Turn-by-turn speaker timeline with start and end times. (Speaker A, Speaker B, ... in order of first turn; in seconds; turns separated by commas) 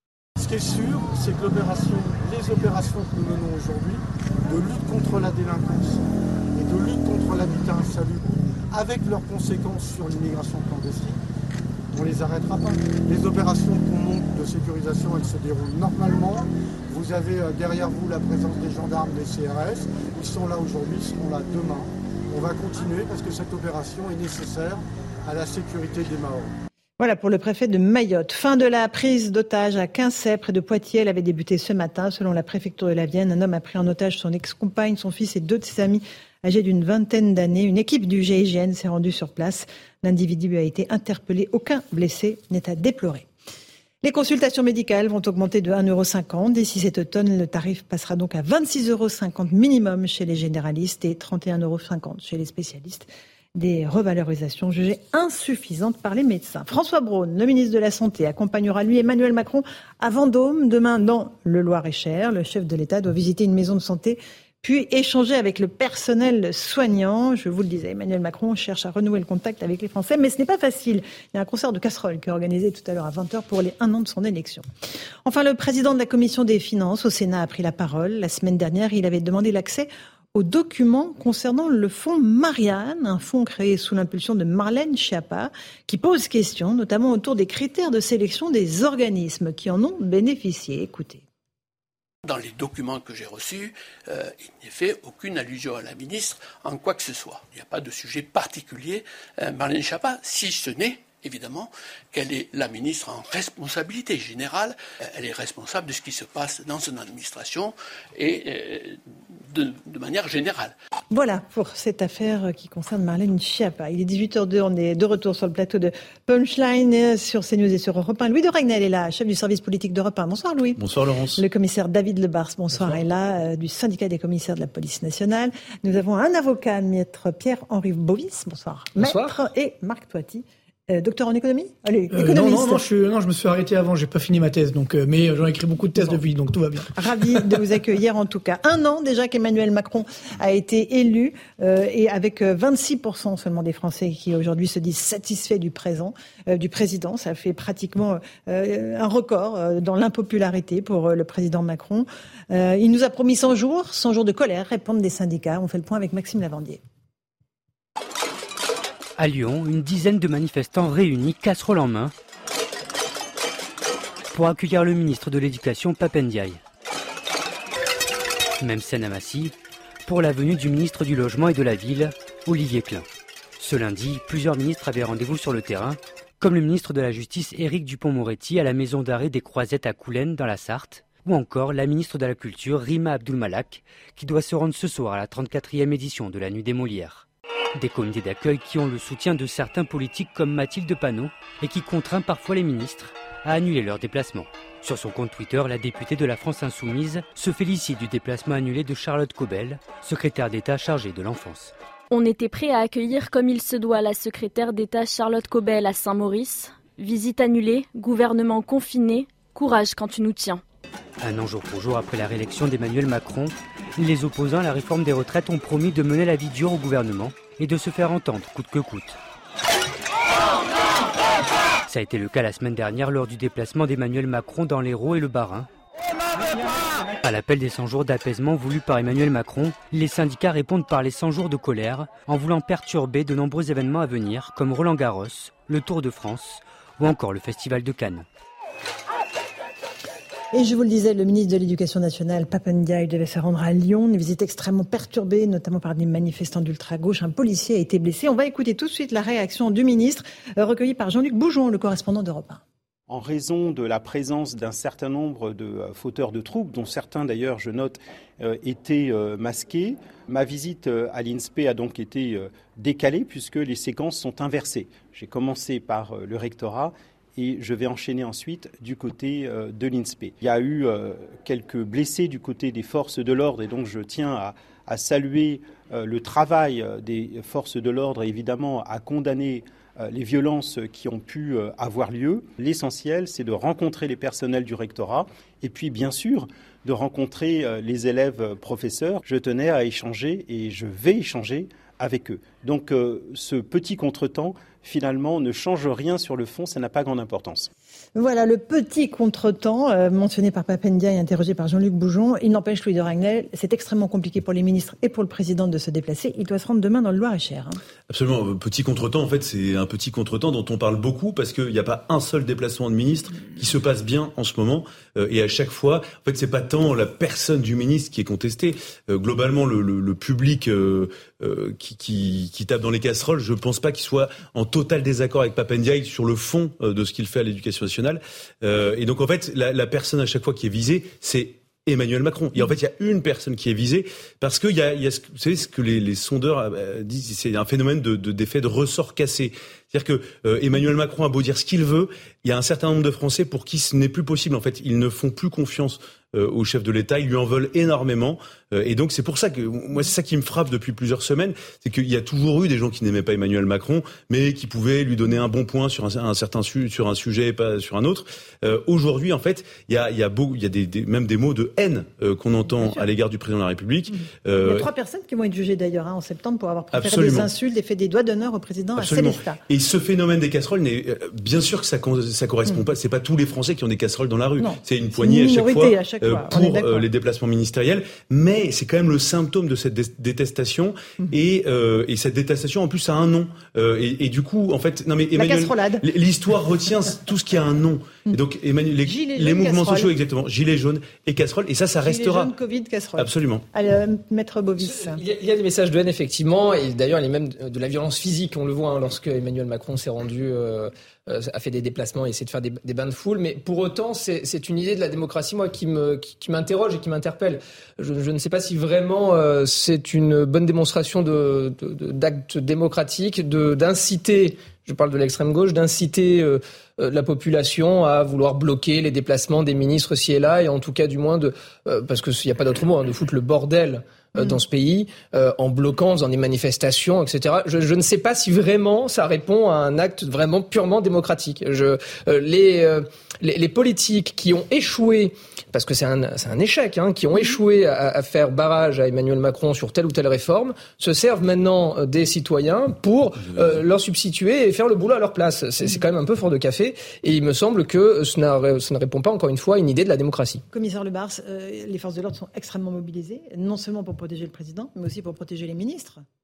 Speaker A: 0.4-11.2, Speaker A: 11.9-26.5, Speaker B: 27.0-43.3, Speaker B: 44.0-74.6, Speaker B: 75.2-91.2, Speaker C: 92.2-109.0, Speaker C: 109.5-110.7, Speaker B: 111.1-120.8, Speaker D: 120.8-121.4, Speaker B: 121.4-132.8, Speaker E: 129.0-129.3, Speaker F: 132.1-137.5, Speaker B: 136.9-156.8, Speaker G: 159.2-162.1, Speaker G: 164.3-166.6, Speaker G: 168.6-169.5, Speaker G: 170.1-173.1, Speaker G: 173.6-201.7, Speaker H: 202.1-210.6, Speaker G: 211.2-219.2, Speaker G: 221.9-225.7, Speaker G: 227.2-238.2, Speaker B: 240.5-252.6, Speaker I: 253.1-297.7, Speaker B: 298.1-307.8, Speaker D: 308.1-364.9, Speaker B: 362.7-363.1, Speaker B: 364.6-369.6, Speaker D: 366.9-367.5, Speaker D: 369.0-392.5, Speaker B: 374.6-377.1, Speaker B: 385.4-386.0, Speaker B: 389.0-390.1, Speaker B: 392.0-395.2, Speaker D: 393.1-393.6, Speaker E: 394.8-450.6, Speaker B: 450.7-456.2